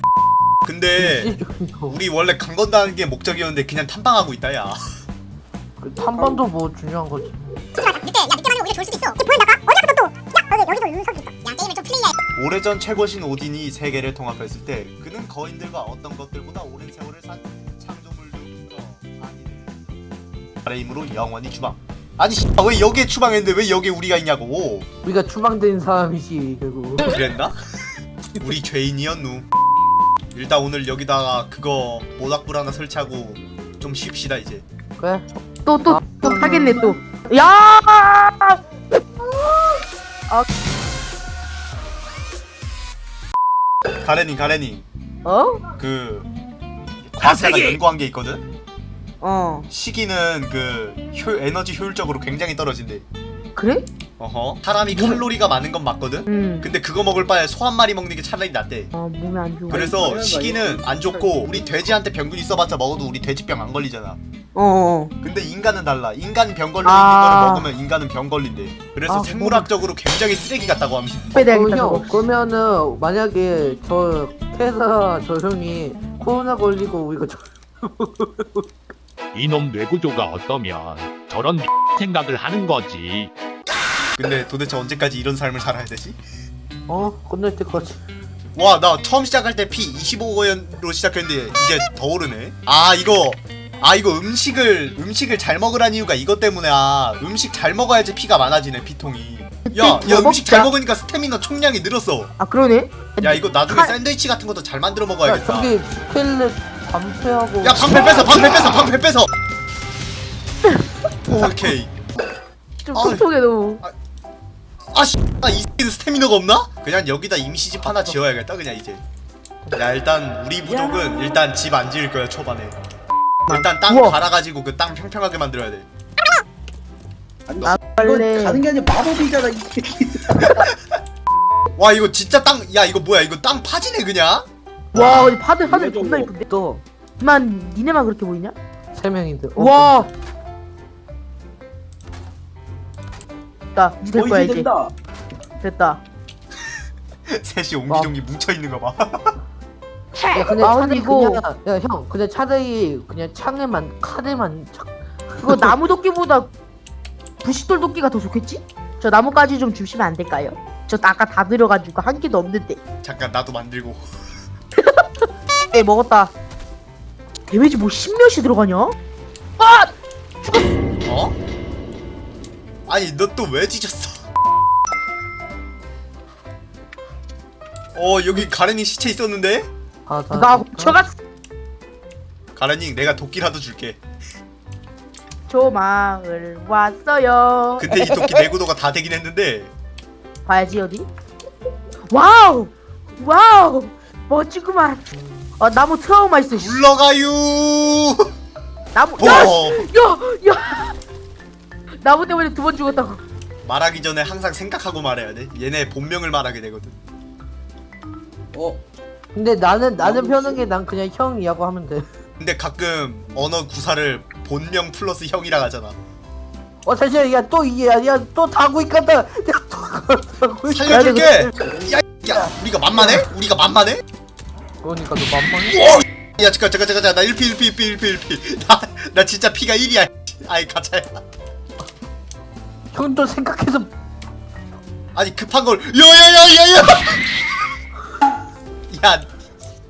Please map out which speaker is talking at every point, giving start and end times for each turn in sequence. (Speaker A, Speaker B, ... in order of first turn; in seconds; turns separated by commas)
Speaker A: 0.6-1.3, Speaker B: 0.9-2.0, Speaker A: 1.9-4.8, Speaker B: 5.8-7.5, Speaker C: 7.8-12.1, Speaker A: 12.3-19.9, Speaker A: 20.6-24.9, Speaker B: 25.0-27.1, Speaker A: 27.0-27.5, Speaker A: 28.4-29.5, Speaker A: 30.3-34.6, Speaker B: 35.0-35.3, Speaker D: 35.6-38.6, Speaker B: 35.9-37.0, Speaker A: 44.0-44.8, Speaker D: 45.2-45.6, Speaker A: 45.8-46.3, Speaker A: 47.0-48.4, Speaker D: 49.2-49.7, Speaker A: 49.7-53.0, Speaker D: 53.5-53.8, Speaker A: 54.2-58.9, Speaker D: 54.9-55.2, Speaker D: 56.3-56.7, Speaker D: 58.9-59.9, Speaker E: 59.7-61.5, Speaker A: 59.7-64.2, Speaker D: 64.5-65.1, Speaker A: 65.2-71.5, Speaker D: 66.8-67.7, Speaker D: 69.1-69.7, Speaker D: 71.3-72.2, Speaker B: 71.5-78.7, Speaker F: 79.3-83.3, Speaker A: 84.2-86.2, Speaker B: 86.9-88.0, Speaker A: 88.5-102.3, Speaker D: 99.7-100.7, Speaker D: 102.4-103.9, Speaker A: 103.2-105.7, Speaker B: 105.2-108.2, Speaker A: 107.6-109.3, Speaker A: 111.2-111.9, Speaker D: 112.8-113.8, Speaker A: 112.9-113.3, Speaker A: 114.9-119.0, Speaker B: 117.8-118.1, Speaker A: 119.7-122.8, Speaker E: 120.6-121.4, Speaker D: 123.5-124.2, Speaker A: 123.5-125.9, Speaker E: 127.5-130.6, Speaker D: 127.6-128.6, Speaker A: 130.4-130.8, Speaker A: 131.8-134.4, Speaker D: 134.9-136.4, Speaker E: 135.6-136.3, Speaker B: 136.5-136.8, Speaker D: 137.2-138.5, Speaker B: 138.9-140.1, Speaker D: 139.6-140.1, Speaker D: 143.7-144.7, Speaker E: 144.1-144.9, Speaker D: 145.6-146.0, Speaker A: 147.3-149.3, Speaker B: 147.9-148.1, Speaker D: 150.2-151.4, Speaker B: 150.3-155.7, Speaker D: 155.4-156.5, Speaker D: 157.4-162.8, Speaker A: 163.0-164.0, Speaker D: 165.7-166.3, Speaker D: 167.5-168.9, Speaker D: 169.6-169.9, Speaker D: 170.4-170.7, Speaker A: 171.0-171.3, Speaker A: 172.9-174.2, Speaker A: 177.9-179.7, Speaker B: 180.1-181.0, Speaker D: 180.3-181.2, Speaker A: 182.5-184.0, Speaker D: 185.5-188.1, Speaker A: 187.8-189.7, Speaker D: 190.4-191.1, Speaker D: 192.1-195.1, Speaker D: 195.6-196.8, Speaker A: 196.5-198.3, Speaker D: 198.9-200.9, Speaker A: 199.2-199.8, Speaker D: 202.0-203.2, Speaker A: 203.6-206.9, Speaker E: 208.5-208.8, Speaker B: 209.3-212.1, Speaker E: 210.0-210.7, Speaker A: 212.4-215.9, Speaker B: 216.8-221.2, Speaker A: 220.7-224.0, Speaker D: 220.9-221.5, Speaker B: 224.8-226.0, Speaker A: 226.4-231.2, Speaker B: 232.9-233.9, Speaker A: 235.1-237.4, Speaker A: 238.9-239.3